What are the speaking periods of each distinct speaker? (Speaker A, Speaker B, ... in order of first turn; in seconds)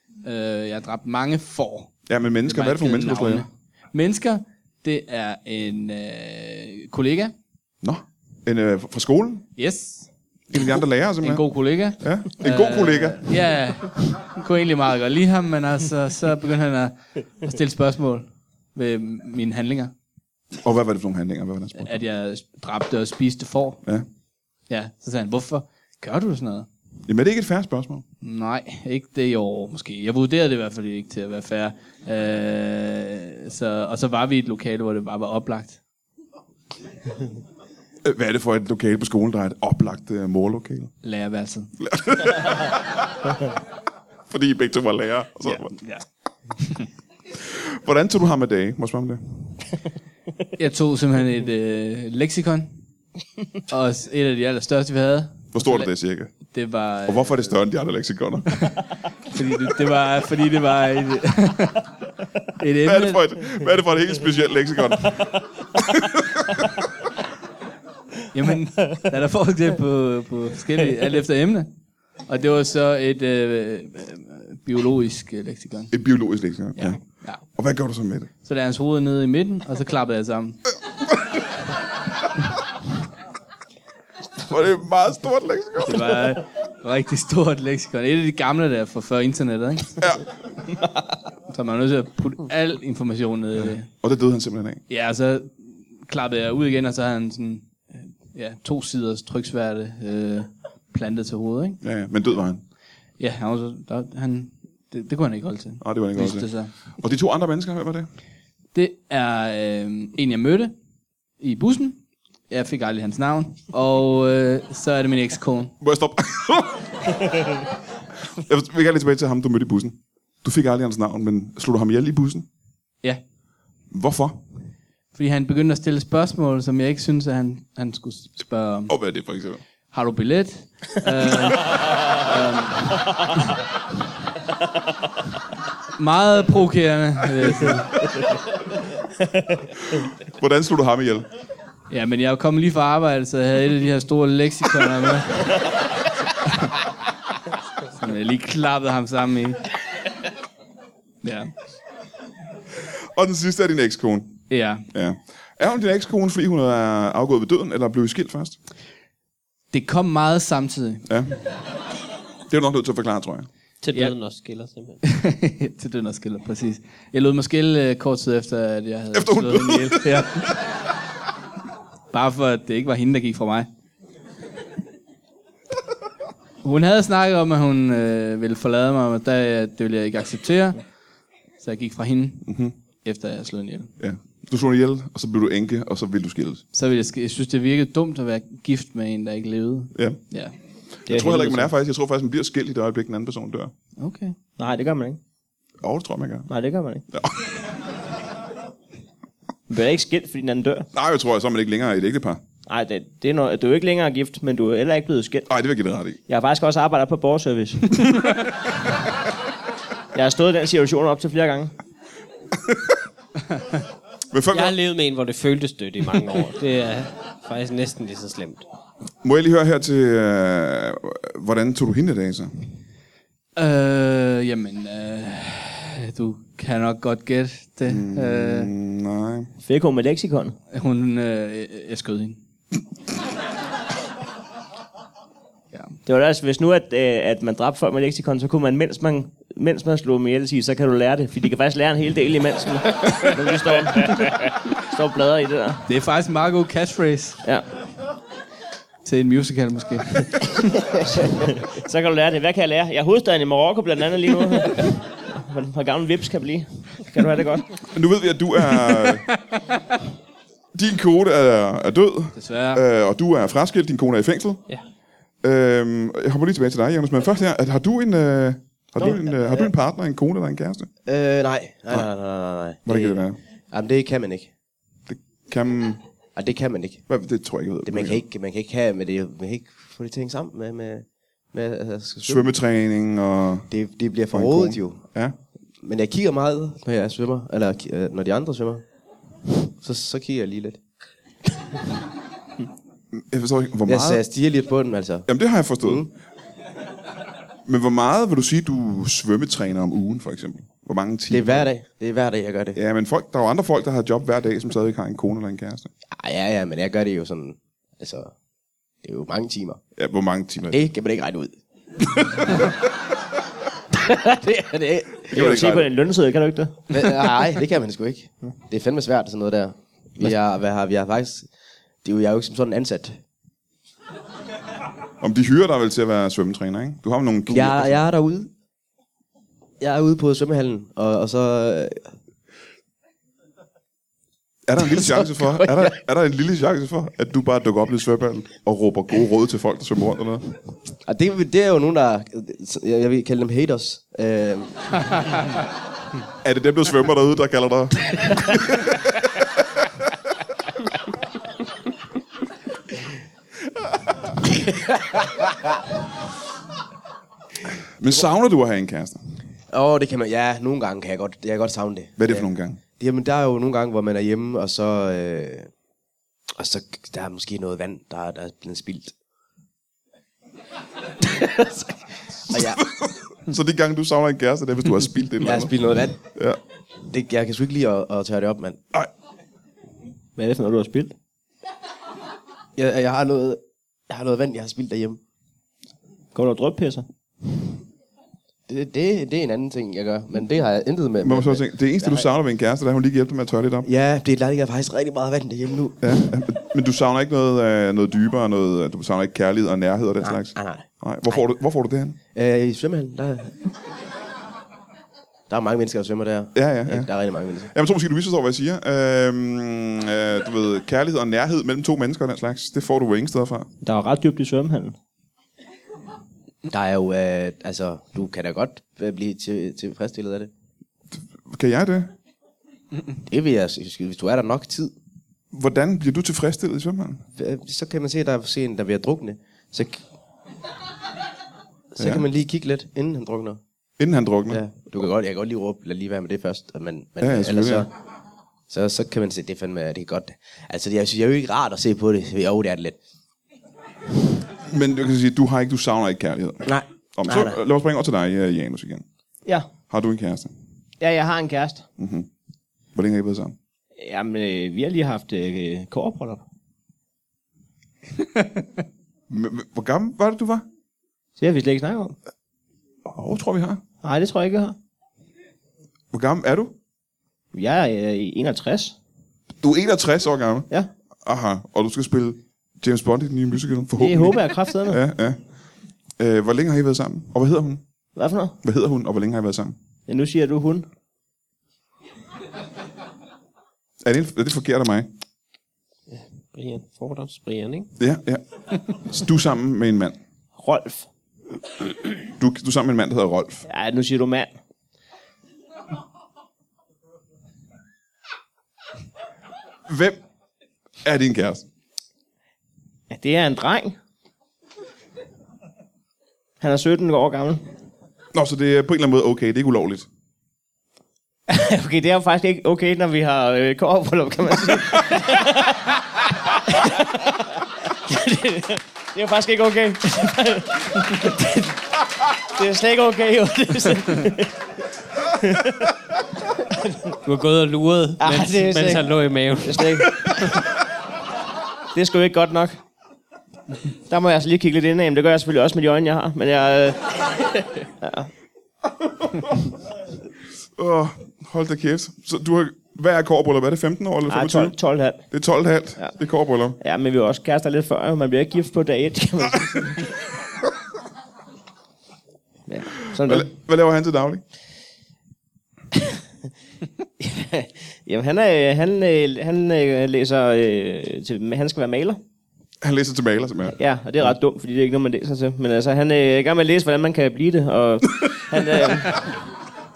Speaker A: 0.2-1.9, 2.5-7.3, 9.6-10.1, 11.2-19.9, 21.8-23.8, 24.7-26.7, 28.2-35.8, 41.0-41.7, 45.5-46.0, 46.6-46.9, 50.6-52.8, 53.7-57.5, 58.6-61.9, 62.6-63.5, 68.3-71.7, 72.2-75.9, 76.8-77.4, 78.4-80.6, 85.8-90.0, 91.5-93.9, 94.9-101.8, 103.2-106.7, 108.7-110.7, 111.4-115.7, 125.1-128.9, 129.9-133.1, 136.0-138.0, 141.9-145.6, 146.5-146.8, 147.9-149.6, 151.2-151.5, 154.5-154.9, 159.7-161.1, 165.0-170.6, 172.1-173.7, 176.6-180.8, 181.6-183.9, 186.7-190.5, 194.0-194.4, 223.6-228.7, 230.7-232.4, 245.9-247.4, 249.0-250.6, 258.7-259.1, 262.3-262.8
Speaker B: 2.1-3.5, 7.8-9.5, 10.5-13.3, 20.6-22.0, 27.1-28.0, 38.0-40.9, 41.8-42.9, 44.3-45.7, 47.4-49.6, 55.5-56.3, 57.1-58.6, 62.8-66.7, 75.9-78.3, 84.5-86.2, 93.9-94.8, 101.8-102.6, 105.8-106.5, 107.0-108.1, 115.8-117.1, 118.4-122.5, 123.9-124.4, 128.9-129.6, 140.4-141.3, 153.2-158.6, 161.1-161.3, 162.5-163.5, 169.1-170.4, 182.5-182.7, 184.0-186.6, 191.1-193.7, 195.8-196.5, 197.1-197.6, 200.9-202.4, 205.5-206.2, 214.3-214.8, 219.2-222.5, 227.9-229.5, 257.9-259.2, 260.7-264.6, 265.4-270.9, 272.9-273.4, 275.1-276.0, 277.1-278.2, 282.3-283.7, 284.3-285.3, 293.1-294.2, 295.3-296.1, 297.7-301.7, 302.8-305.9, 310.0-310.9, 312.0-312.7, 315.3-315.9, 325.2-328.0, 334.7-340.4, 346.4-349.5, 358.0-359.2, 362.2-362.8, 372.6-375.7, 376.3-376.6, 391.2-393.9, 396.0-402.2, 406.6-407.1, 407.7-413.7, 421.4-422.1, 425.5-427.2, 432.0-432.2, 434.0-434.6, 437.2-437.9, 444.7-449.1, 449.9-450.5, 452.0-452.3, 452.9-453.6, 459.3-460.6, 463.1-463.8, 466.1-466.8, 469.6-470.7, 471.2-475.4, 476.2-477.8, 478.6-479.8, 484.0-485.1, 488.0-490.2, 492.4-493.7, 499.9-500.2, 501.0-501.7, 508.3-510.1, 540.8-544.8, 545.3-546.8, 553.2-554.4, 562.8-563.8
Speaker C: 163.8-165.0, 214.5-218.7, 486.1-487.9, 527.2-530.6
Speaker D: 191.1-191.7, 194.6-195.2, 196.5-197.1, 199.7-200.9, 202.7-205.5, 206.3-208.0, 210.2-211.7, 229.6-230.6, 236.1-245.8, 251.1-257.8, 315.3-316.9, 380.4-381.1, 386.3-387.1, 413.8-415.0, 451.0-451.9, 454.0-456.4, 461.4-462.2, 464.0-464.8, 467.5-469.0, 474.0-475.0, 478.1-478.6, 480.1-480.9, 490.6-491.1, 493.7-494.6, 503.1-504.0, 506.6-507.7, 511.5-524.6, 525.3-525.9, 526.7-527.1, 528.2-529.1, 529.6-530.7, 531.9-532.8, 534.1-538.3, 544.3-545.3, 546.8-550.1, 552.7-553.5, 557.2-562.2, 563.7-569.3
Speaker E: 269.0-269.7, 271.1-274.5, 276.4-277.1, 277.8-282.5, 283.7-285.1, 285.8-288.8, 289.7-290.8, 293.9-295.3, 295.8-296.1, 301.3-302.8, 306.1-308.4, 309.0-309.8, 310.7-311.6, 312.5-312.7, 314.3-315.6, 316.9-321.5, 322.0-323.2, 327.5-328.5, 329.8-332.1, 341.1-345.3, 359.7-365.7, 366.6-369.1, 372.5-372.8, 375.4-376.3, 377.1-378.8, 382.8-385.2, 388.7-392.3, 393.9-396.1, 400.2-401.4, 402.3-403.7, 405.5-407.7, 416.7-420.5, 423.3-424.9, 427.4-430.0, 431.9-433.6, 434.5-437.9, 438.7-443.0, 446.6-447.6